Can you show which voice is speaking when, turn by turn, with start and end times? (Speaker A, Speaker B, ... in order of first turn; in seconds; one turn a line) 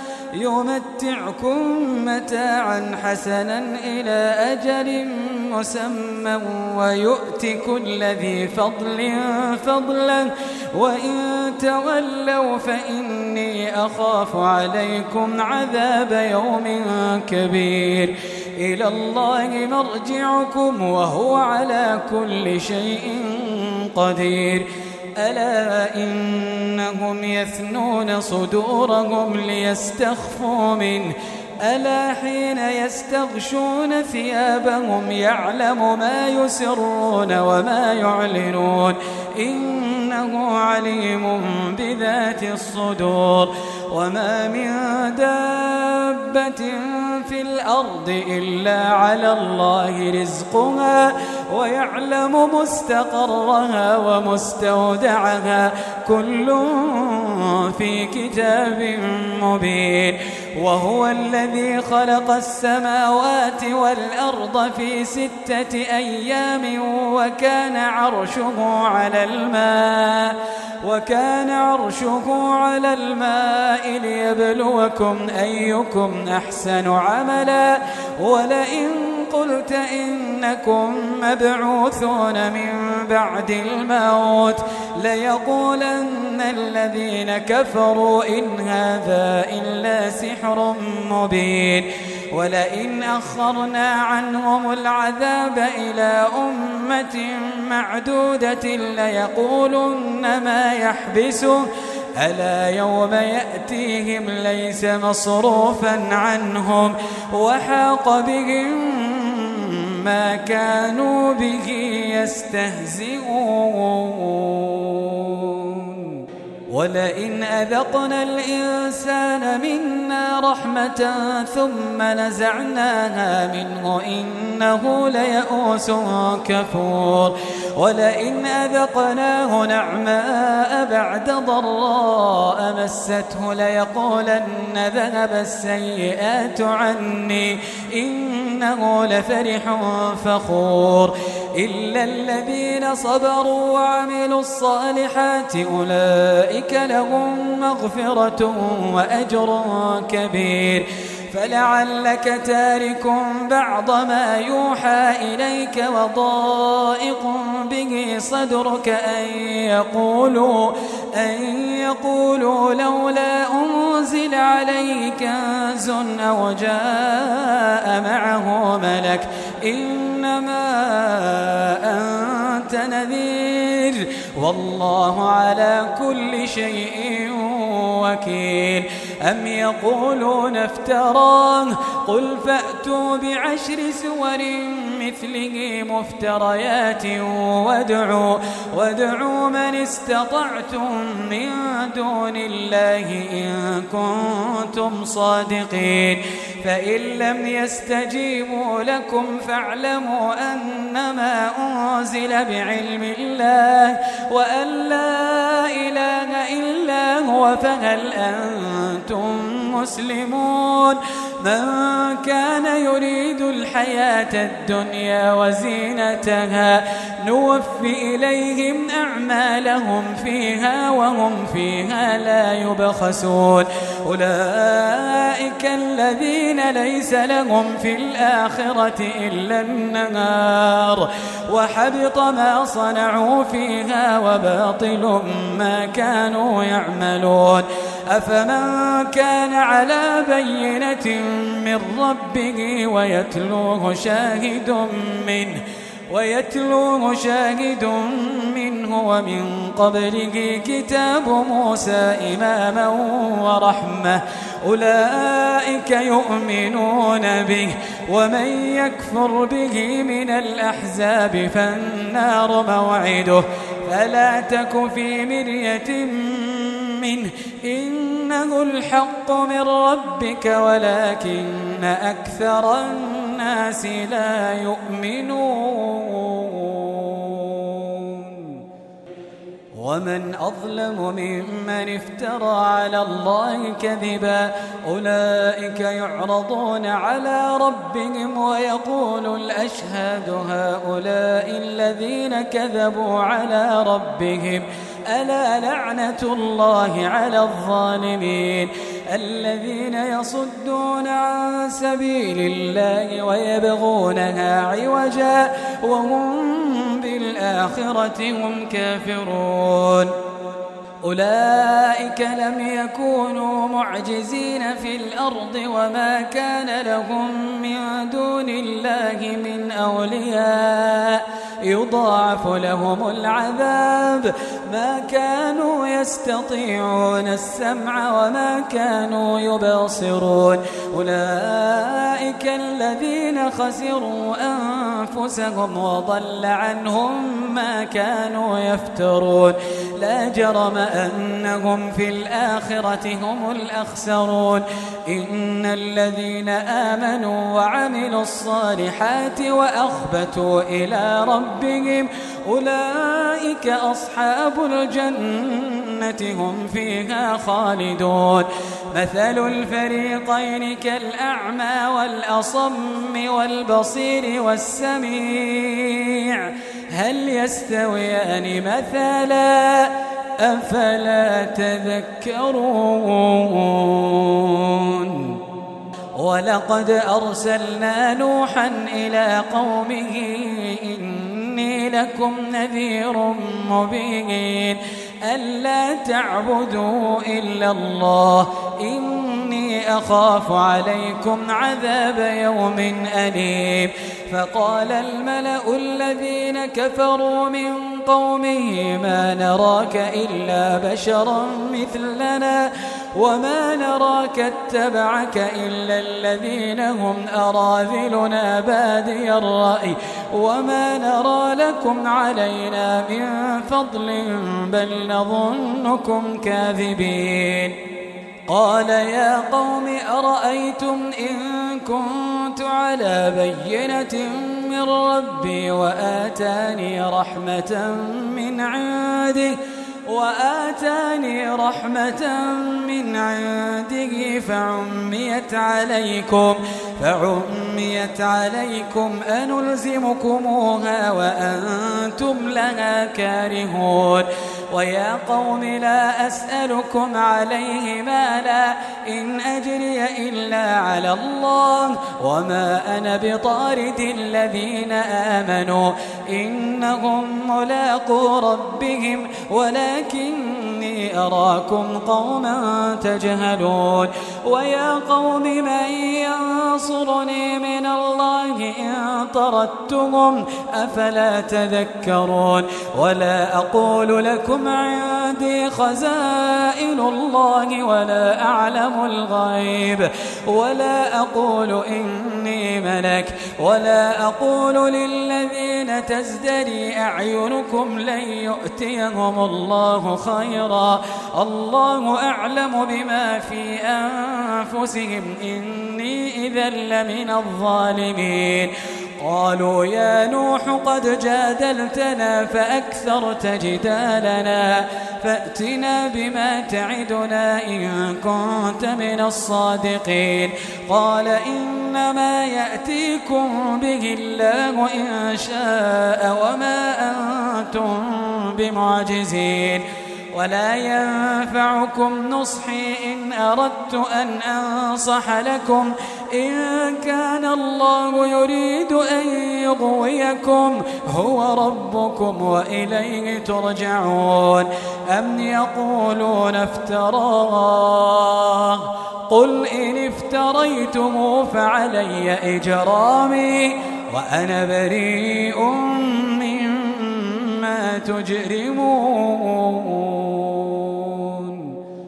Speaker A: 0.3-101.7
Speaker A: 102.2-116.1
Speaker A: 116.7-278.6
Speaker A: 279.8-310.1
Speaker A: 311.0-375.4
Speaker A: 376.2-417.7
Speaker A: 418.5-429.6
Speaker A: 430.1-551.7